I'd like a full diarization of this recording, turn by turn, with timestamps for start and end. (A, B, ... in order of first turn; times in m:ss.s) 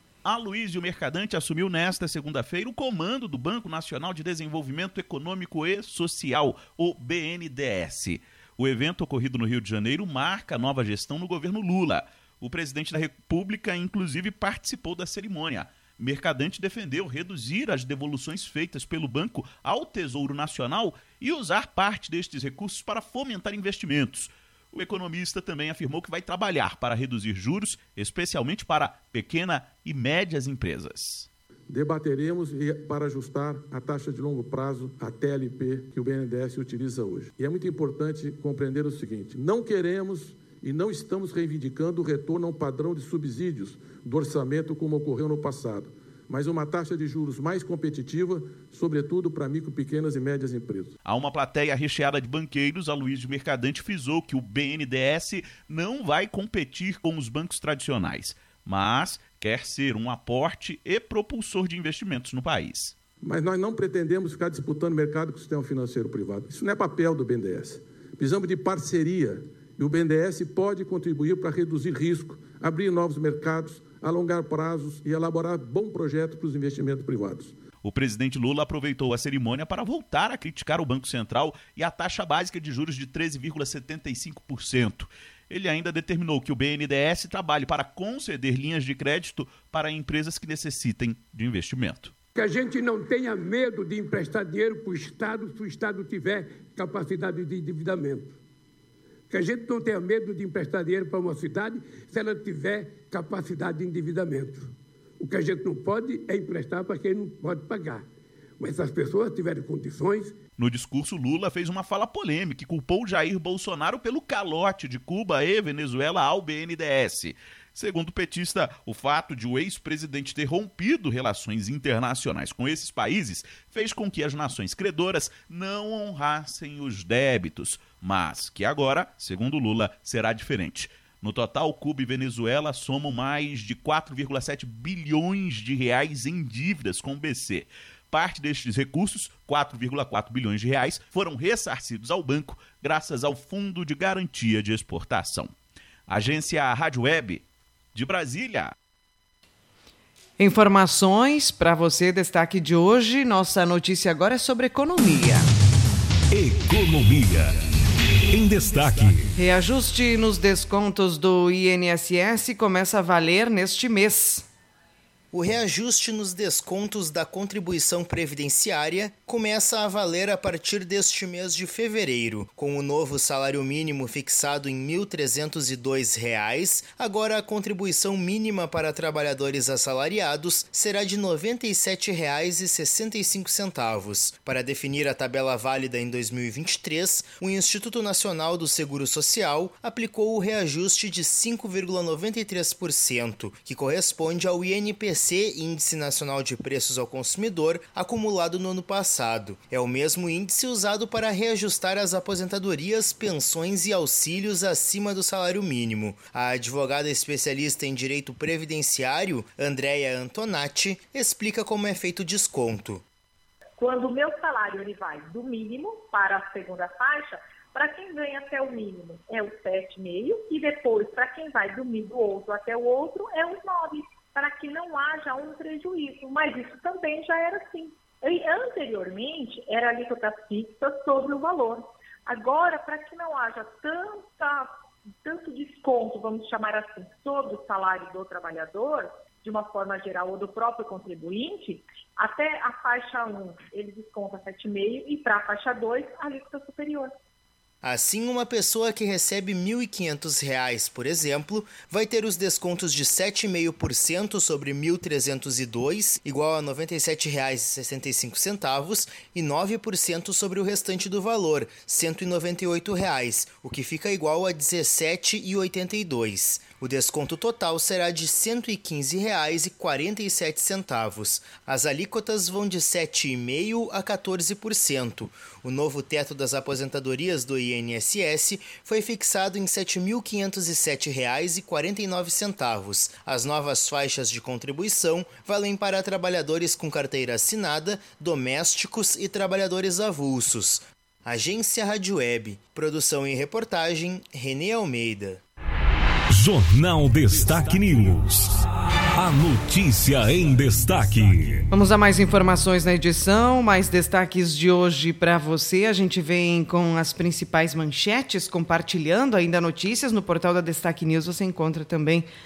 0:00.2-0:31.3 A
0:31.7-0:50.9 B
0:51.0-1:03.0 A
1:03.2-1:17.5 B
1:17.8-1:32.1 A
1:32.4-1:38.3 C
1:39.3-1:48.0 C
1:48.6-1:50.4 C
1:50.6-2:25.5 A
2:26.1-2:28.7 A
2:30.4-2:35.5 D
2:36.3-2:37.6 E
2:38.3-2:39.3 E
2:39.4-2:44.4 D
2:45.3-3:33.0 F
3:33.8-4:07.1 G
4:07.8-4:55.4 F
4:56.3-4:58.6 E
4:59.2-5:01.6 E
5:01.7-5:12.3 D